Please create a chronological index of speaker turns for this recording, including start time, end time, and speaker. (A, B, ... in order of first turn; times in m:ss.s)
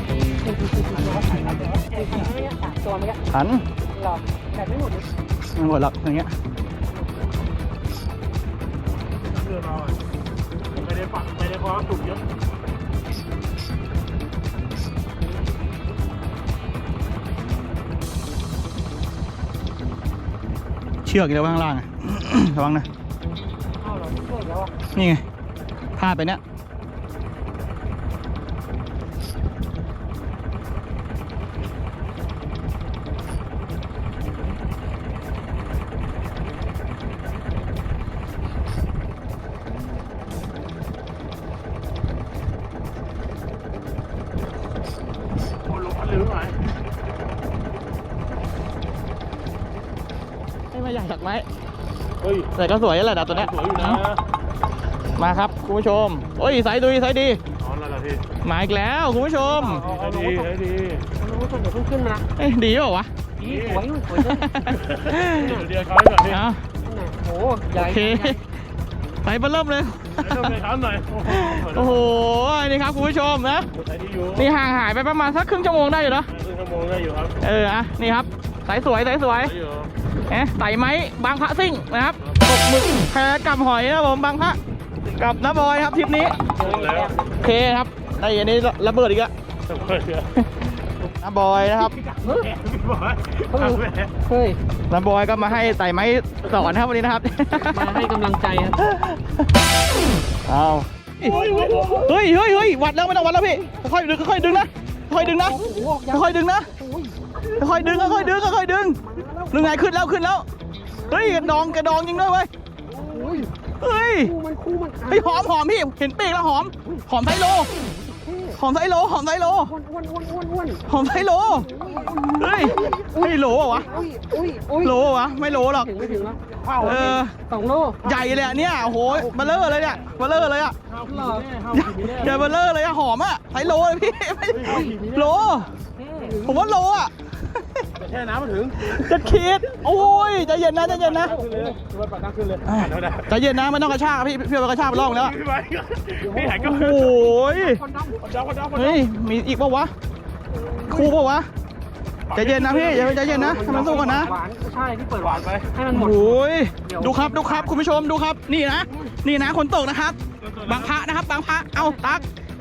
0:00.4-0:03.2 A
0:00.9-0:02.5 B
0:03.3-0:03.6 C
0:03.9-0:05.1 A
0:05.5-0:06.3 C
0:09.3-0:10.0 B
0:10.7-0:12.2 B
0:21.0-0:22.9 C
0:23.8-0:24.7 A
0:24.9-0:25.2 C
0:26.0-0:26.4 C
0:45.7-0:46.6 B
0:50.7-0:51.4 C
0:52.2-0:52.5 B
0:52.5-0:54.0 C
0:53.2-0:54.2 B
0:55.2-0:57.4 C
0:57.6-0:58.2 B
0:58.4-0:59.8 C
0:59.3-1:00.5 A
0:59.8-1:01.0 B
1:01.2-1:02.3 A
1:02.4-1:03.1 C
1:03.4-1:03.8 B
1:03.4-1:04.8 A
1:04.1-1:05.5 C
1:04.7-1:06.4 B
1:05.3-1:05.7 A
1:06.2-1:06.6 C
1:06.8-1:08.4 A
1:07.7-1:08.4 C
1:09.2-1:10.5 C
1:10.2-1:12.2 B
1:11.2-1:13.7 C
1:13.7-1:14.5 B
1:14.4-1:16.3 C
1:16.3-1:17.4 B
1:17.4-1:19.5 C
1:19.4-1:19.9 B
1:20.3-1:26.4 C
1:22.2-1:22.5 B
1:26.4-1:27.4 A
1:26.5-1:27.2 B
1:27.4-1:29.3 C
1:29.7-1:30.4 B
1:31.2-1:31.9 C
1:31.8-1:34.1 B
1:33.5-1:34.6 A
1:34.9-1:38.0 C
1:35.4-1:35.8 A
1:37.5-1:38.9 A
1:38.8-1:39.4 C
1:40.4-1:41.4 C
1:41.2-1:42.1 B
1:41.2-1:42.1 A
1:42.0-1:46.7 C
1:45.1-1:48.4 A
1:47.6-1:49.0 C
1:49.0-1:49.8 A
1:49.5-1:50.4 C
1:50.9-1:52.1 A
1:51.1-1:52.5 C
1:52.9-1:55.5 A
1:52.9-1:53.5 B
1:53.8-1:54.3 C
1:55.1-1:57.7 C
1:57.7-1:58.6 A
1:58.6-1:59.7 C
1:59.6-2:08.1 A
2:00.9-2:01.7 C
2:01.8-2:03.0 B
2:02.3-2:04.0 C
2:04.8-2:05.9 C
2:06.2-2:07.2 B
2:06.8-2:07.3 C
2:08.0-2:10.2 B
2:08.0-2:10.8 C
2:10.9-2:12.5 B
2:11.0-2:11.5 A
2:11.7-2:15.7 C
2:14.5-2:16.8 B
2:14.6-2:15.0 A
2:15.8-2:16.4 A
2:16.4-2:17.9 C
2:17.9-2:19.9 B
2:18.9-2:21.3 C
2:19.9-2:21.8 A
2:20.9-2:23.4 B
2:22.6-2:25.4 C
2:24.9-2:27.1 B
2:26.2-2:28.2 A
2:26.6-2:27.8 C
2:28.1-2:29.0 B
2:28.8-2:29.9 C
2:30.5-2:31.2 A
2:30.9-2:31.5 C
2:32.3-2:34.4 B
2:32.3-2:34.3 C
2:33.1-2:38.1 A
2:35.2-2:35.7 B
2:35.9-2:42.2 C
2:38.8-2:39.1 A
2:40.4-2:41.0 B
2:41.8-2:42.2 A